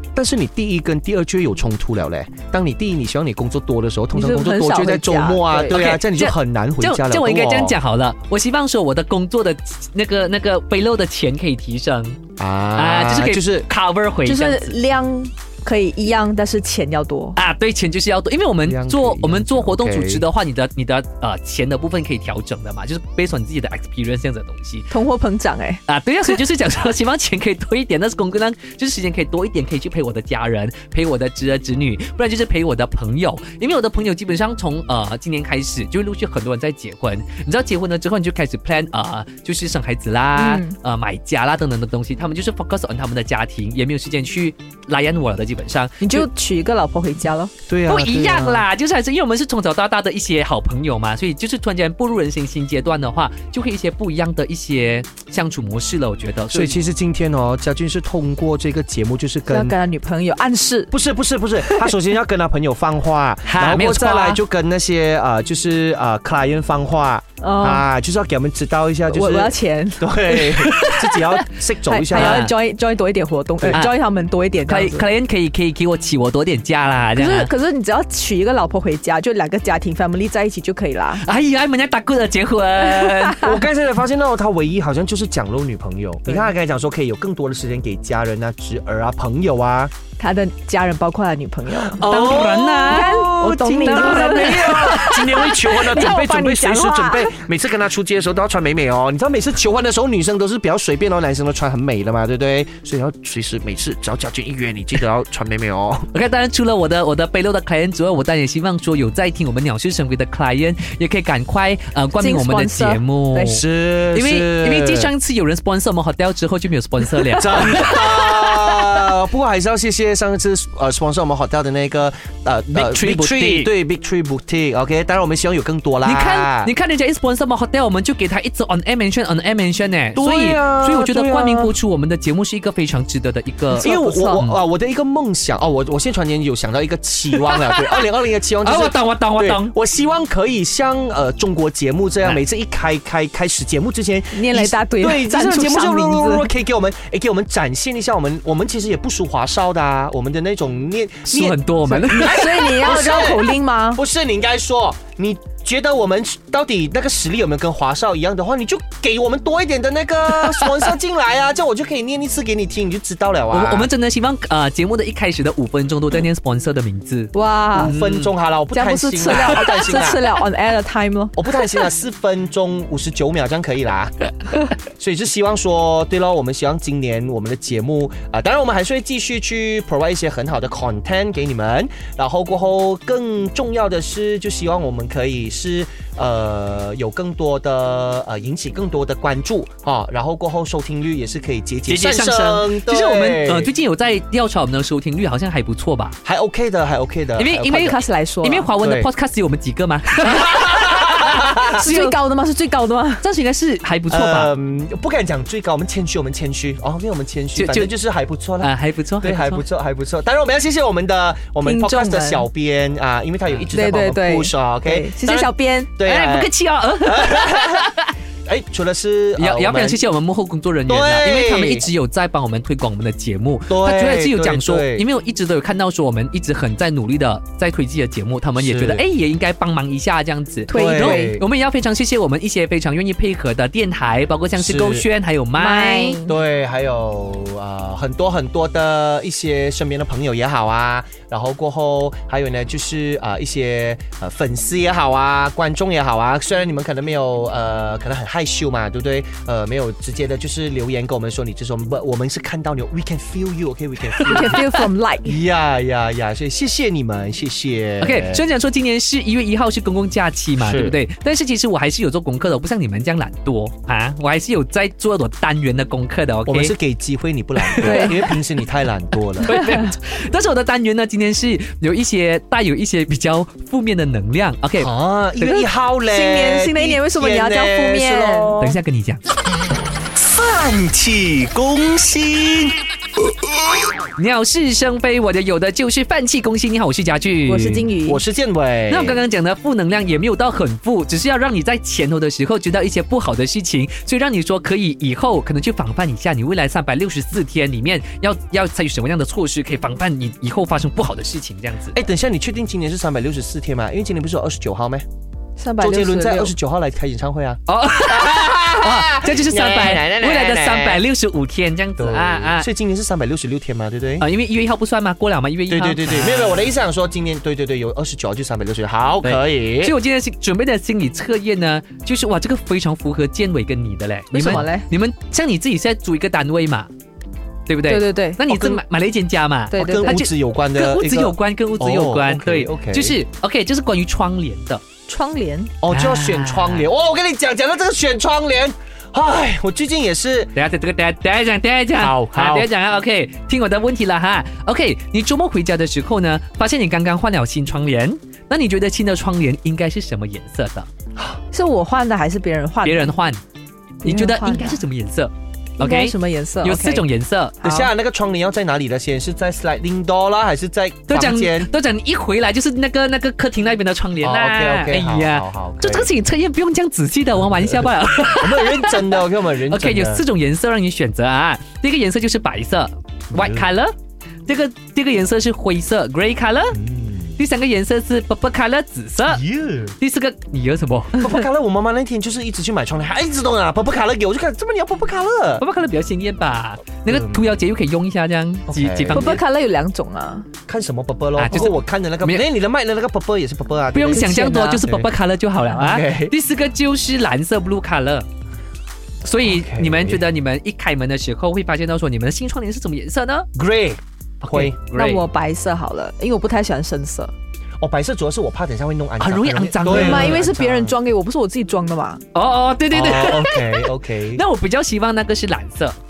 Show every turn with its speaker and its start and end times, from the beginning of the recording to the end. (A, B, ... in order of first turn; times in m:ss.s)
0:00.2-0:07.8 A
0:04.1-0:05.8 B
0:05.7-0:12.2 C
0:12.4-0:13.7 A
0:12.8-0:14.8 C
0:14.2-0:17.4 B
0:17.4-0:24.9 C
0:18.6-0:20.2 A
0:24.9-0:25.8 B
0:25.9-0:46.3 C
0:40.4-0:40.8 B
0:46.0-0:47.5 B
0:47.7-0:48.6 A
0:47.9-0:56.8 C
0:56.5-0:59.8 A
0:59.5-1:00.9 B
1:00.9-1:12.5 A
1:03.5-1:04.4 C
1:07.4-1:07.9 B
1:09.1-1:10.8 B
1:10.5-1:11.4 C
1:11.9-1:15.1 B
1:12.1-1:12.5 C
1:13.6-1:13.9 A
1:13.7-1:14.0 C
1:14.6-1:17.5 C
1:17.2-1:21.2 B
1:21.2-1:23.5 C
1:23.0-1:23.3 B
1:23.3-1:29.9 A
1:30.2-1:37.4 B
1:31.7-1:46.1 A
1:32.0-1:35.2 C
1:46.1-1:58.6 C
1:52.2-1:53.6 B
1:53.4-1:55.1 A
1:57.3-2:06.7 A
2:02.7-2:03.7 C
2:06.0-2:14.6 C
2:10.2-2:11.7 A
2:13.8-2:14.4 B
2:13.8-2:43.9 A
2:17.4-2:18.0 C
2:18.6-2:19.7 C
2:24.3-2:26.5 B
2:31.3-2:32.7 C
2:31.9-2:34.0 B
2:40.5-2:40.9 C
2:43.5-2:48.3 C
2:47.3-2:47.9 B
2:47.8-2:50.2 A
2:48.7-2:51.4 B
2:51.4-2:54.1 A
2:54.8-3:13.7 A
3:11.9-3:16.2 C
3:16.2-3:17.9 A
3:17.4-3:22.2 C
3:17.7-3:18.7 B
3:18.8-3:19.1 A
3:20.2-3:21.8 A
3:21.7-3:23.2 B
3:23.2-3:24.5 C
3:24.1-3:36.5 A
3:27.6-3:27.9 C
3:28.6-3:29.6 C
3:31.6-3:32.5 B
3:33.7-3:35.9 B
3:36.0-3:38.1 C
3:37.0-3:38.0 A
3:38.5-3:40.0 A
3:39.4-3:56.2 C
3:40.9-3:41.9 A
3:43.7-3:45.1 A
3:48.6-3:49.0 A
3:50.7-3:51.4 B
3:50.7-3:51.4 A
3:54.6-3:55.1 A
3:55.6-3:56.3 B
3:56.3-4:14.7 A
4:14.2-4:14.4 C
4:14.2-4:15.4 B
4:15.2-4:18.4 A
4:18.0-4:26.7 C
4:20.6-4:21.0 A
4:26.5-4:29.6 A
4:27.7-4:28.3 C
4:27.8-4:28.2 B
4:29.4-4:34.9 C
4:29.5-4:29.9 B
4:34.8-4:38.8 A
4:35.4-4:38.6 B
4:38.6-4:39.2 C
4:40.1-4:43.9 A
4:44.2-4:47.9 C
4:47.5-4:48.2 B
4:48.0-4:49.2 A
4:48.9-5:02.0 C
5:01.9-5:05.0 A
5:05.6-5:06.5 B
5:05.8-5:11.0 A
5:07.7-5:12.7 C
5:12.0-5:14.3 A
5:14.2-5:16.7 C
5:15.7-5:20.0 A
5:19.2-5:26.9 C
5:24.3-5:24.9 B
5:27.7-5:34.8 C
5:27.9-5:28.5 B
5:29.7-5:30.2 B
5:29.8-5:33.2 A
5:35.1-5:35.7 B
5:35.8-5:40.5 A
5:35.9-5:36.9 C
5:40.6-5:50.9 C
5:42.0-5:42.7 A
5:51.5-5:53.2 B
5:52.8-5:53.4 C
5:54.0-5:54.8 B
5:54.0-5:57.6 C
5:55.8-5:57.0 B
5:57.6-5:57.9 B
5:57.6-6:01.7 A
6:01.1-6:13.9 C
6:04.2-6:06.1 A
6:07.7-6:10.2 A
6:13.3-6:13.7 A
6:14.5-6:16.8 C
6:16.7-6:17.4 A
6:17.4-6:19.4 C
6:19.3-6:20.0 A
6:20.0-6:21.3 C
6:21.1-6:25.6 A
6:25.6-6:29.4 C
6:27.1-6:27.6 A
6:28.7-6:29.4 A
6:29.1-6:30.5 B
6:30.7-6:35.1 A
6:31.4-6:32.4 C
6:33.9-6:38.3 C
6:34.1-6:34.8 B
6:35.7-6:36.3 A
6:39.2-6:43.5 C
6:39.4-6:40.2 A
6:43.6-6:44.8 A
6:44.4-6:45.2 C
6:44.9-6:47.3 B
6:47.8-6:51.0 A
6:49.2-6:50.5 C
6:49.9-6:52.2 B
6:52.3-6:56.0 C
6:52.9-6:54.4 A